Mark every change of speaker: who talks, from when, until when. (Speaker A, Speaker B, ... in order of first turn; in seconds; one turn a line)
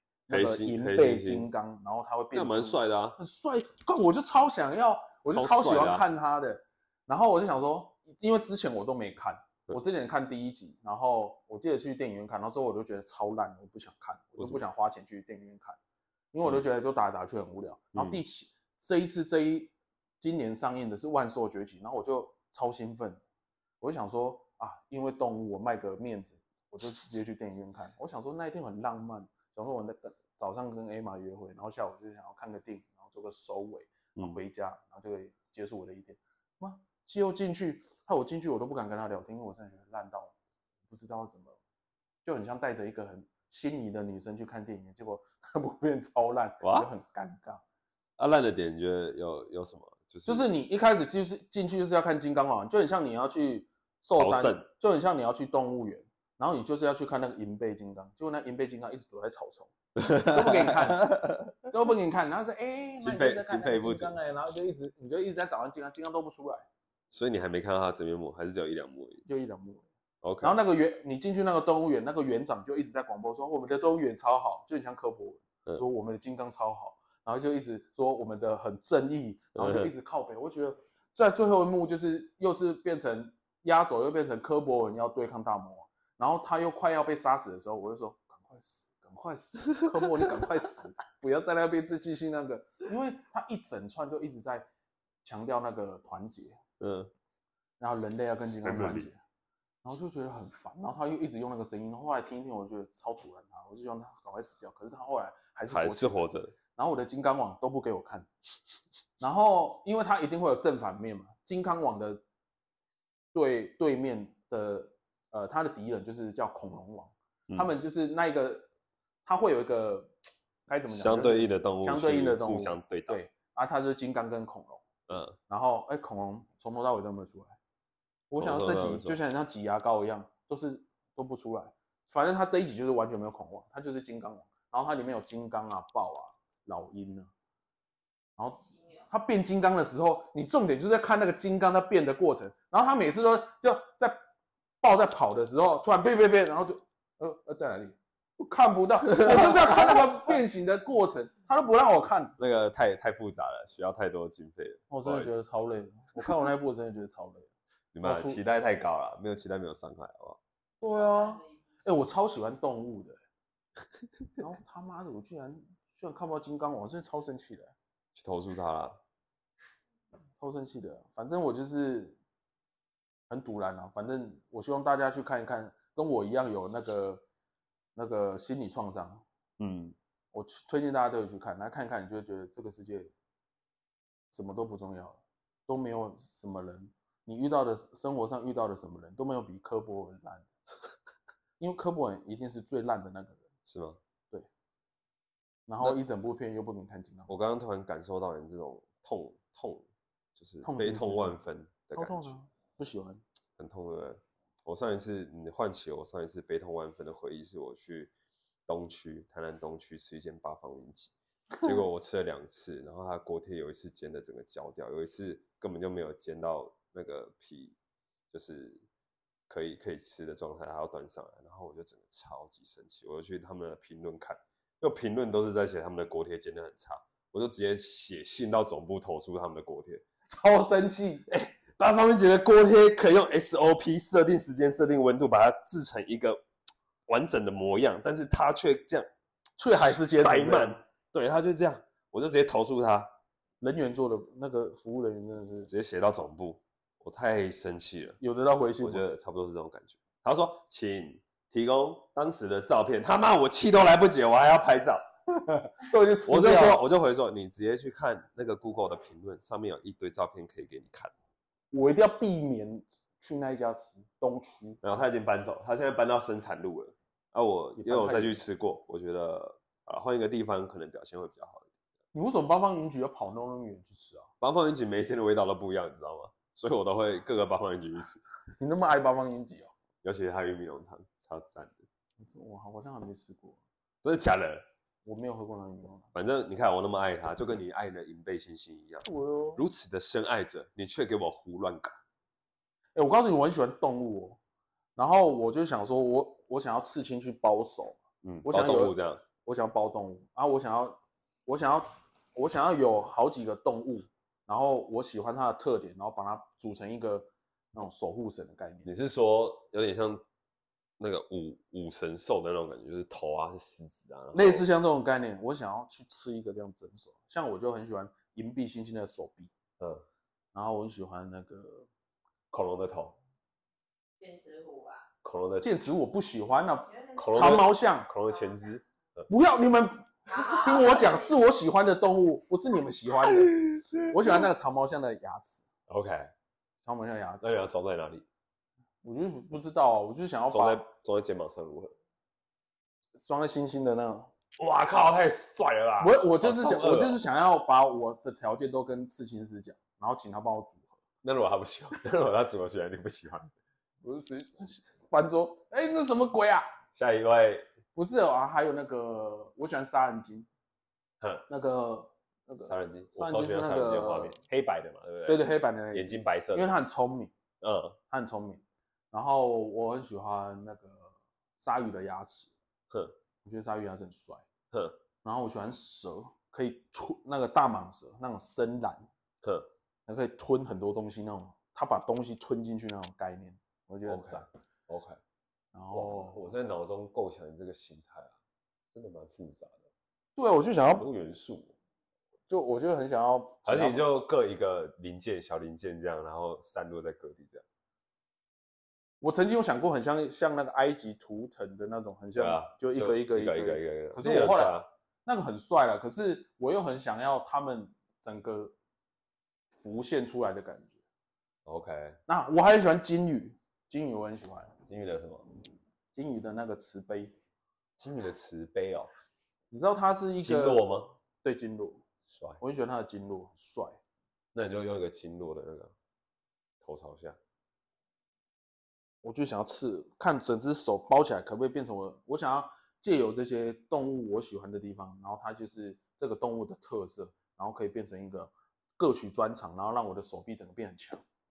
Speaker A: 0.3-15.8
Speaker B: 0.3-1.5
Speaker B: 2.3-3.2
Speaker B: 5.2-6.0
Speaker A: 16.3-23.2
Speaker A: 23.8-40.3
Speaker A: 40.9-41.6
Speaker A: 42.2-47.6
Speaker B: 46.6-46.9
Speaker B: 48.2-50.5
Speaker A: 50.3-66.7
Speaker B: 54.1-54.7
Speaker B: 60.0-61.4
Speaker B: 63.0-64.2
Speaker B: 67.1-69.2
Speaker A: 69.2-69.9
Speaker B: 70.2-70.6
Speaker A: 70.4-94.7
Speaker B: 79.6-79.9
Speaker B: 90.0-90.4
Speaker A: 95.2-96.6
Speaker B: 96.8-97.1
Speaker A: 97.8-99.2
Speaker B: 98.6-99.1
Speaker A: 99.8-108.3
Speaker B: 105.7-106.5
Speaker A: 109.2-112.2
Speaker A: 113.3-118.7
Speaker A: 119.2-120.1
Speaker A: 120.7-124.9
Speaker B: 120.9-123.2
Speaker B: 125.1-125.4
Speaker A: 125.5-127.6
Speaker A: 128.3-137.3
Speaker B: 128.4-129.2
Speaker A: 138.4-144.2
Speaker C: 138.6-139.1
Speaker A: 144.8-152.4
Speaker B: 152.4-155.4
Speaker A: 154.9-157.5
Speaker B: 157.9-160.4
Speaker A: 158.0-158.4
Speaker A: 160.8-163.2
Speaker C: 160.8-161.6
Speaker A: 164.4-167.7
Speaker B: 168.2-169.0
Speaker A: 170.4-172.2
Speaker A: 173.3-177.2
Speaker A: 178.0-179.2
Speaker B: 179.6-180.0
Speaker A: 180.3-183.1
Speaker A: 184.3-190.5
Speaker A: 191.6-193.4
Speaker B: 193.7-194.0
Speaker A: 195.7-197.3
Speaker B: 197.3-202.4
Speaker A: 200.6-201.4
Speaker A: 201.9-203.2
Speaker B: 203.6-208.1
Speaker B: 208.7-217.8
Speaker B: 218.3-218.8
Speaker B: 219.5-230.0
Speaker A: 230.3-231.5
Speaker B: 231.5-236.4
Speaker B: 237.1-239.1
Speaker A: 239.6-240.8
Speaker B: 239.7-243.1
Speaker A: 243.6-245.7
Speaker B: 245.7-248.2
Speaker A: 248.2-249.1
Speaker B: 248.8-255.0
Speaker A: 255.4-256.8
Speaker B: 256.3-261.1
Speaker A: 261.7-264.8
Speaker B: 264.8-271.7
Speaker A: 267.8-268.4
Speaker A: 272.1-274.3
Speaker B: 274.4-278.2
Speaker A: 278.5-279.7
Speaker B: 280.0-281.9
Speaker A: 282.2-283.6
Speaker B: 284.0-284.6
Speaker A: 285.1-286.1
Speaker B: 286.1-292.0
Speaker A: 289.0-289.6
Speaker A: 293.0-294.4
Speaker A: 295.0-308.9
Speaker B: 298.2-299.2
Speaker B: 308.9-310.2
Speaker B: 311.0-314.7
Speaker A: 314.3-319.5
Speaker A: 320.5-321.9
Speaker B: 322.5-323.2
Speaker C: 324.2-325.1
Speaker B: 325.2-325.9
Speaker A: 325.6-328.1
Speaker C: 326.8-327.6
Speaker B: 327.2-329.3
Speaker A: 329.3-335.7
Speaker C: 330.3-331.3
Speaker B: 333.7-334.4
Speaker B: 335.9-336.3
Speaker A: 336.8-337.5
Speaker B: 337.4-338.2
Speaker A: 339.0-340.8
Speaker B: 340.5-341.9
Speaker A: 343.2-344.3
Speaker B: 344.6-347.2
Speaker A: 346.0-351.0
Speaker B: 351.2-353.5
Speaker A: 354.0-356.7
Speaker B: 356.9-357.7
Speaker A: 357.9-360.5
Speaker B: 361.2-361.5
Speaker A: 361.5-364.4
Speaker B: 362.6-366.7
Speaker A: 365.2-367.3
Speaker B: 367.6-368.0
Speaker A: 368.1-372.5
Speaker B: 372.9-373.1
Speaker A: 373.4-374.4
Speaker B: 374.7-375.0
Speaker A: 375.2-379.1
Speaker B: 379.4-379.7
Speaker A: 380.1-384.5
Speaker B: 384.1-385.2
Speaker A: 385.7-386.5
Speaker B: 385.9-388.4
Speaker B: 388.9-389.9
Speaker A: 390.4-391.1
Speaker B: 391.0-391.7
Speaker A: 392.5-394.0
Speaker B: 393.7-397.6
Speaker A: 399.2-408.8
Speaker B: 402.4-404.9
Speaker A: 409.8-411.0
Speaker B: 411.7-412.2
Speaker A: 412.3-414.8
Speaker B: 414.9-415.4
Speaker A: 416.1-417.3
Speaker B: 418.0-419.1
Speaker A: 419.7-420.9
Speaker B: 420.4-421.2
Speaker A: 421.4-422.0
Speaker B: 422.3-422.6
Speaker A: 422.6-424.0
Speaker B: 424.5-425.9
Speaker B: 426.8-427.4
Speaker A: 429.2-441.2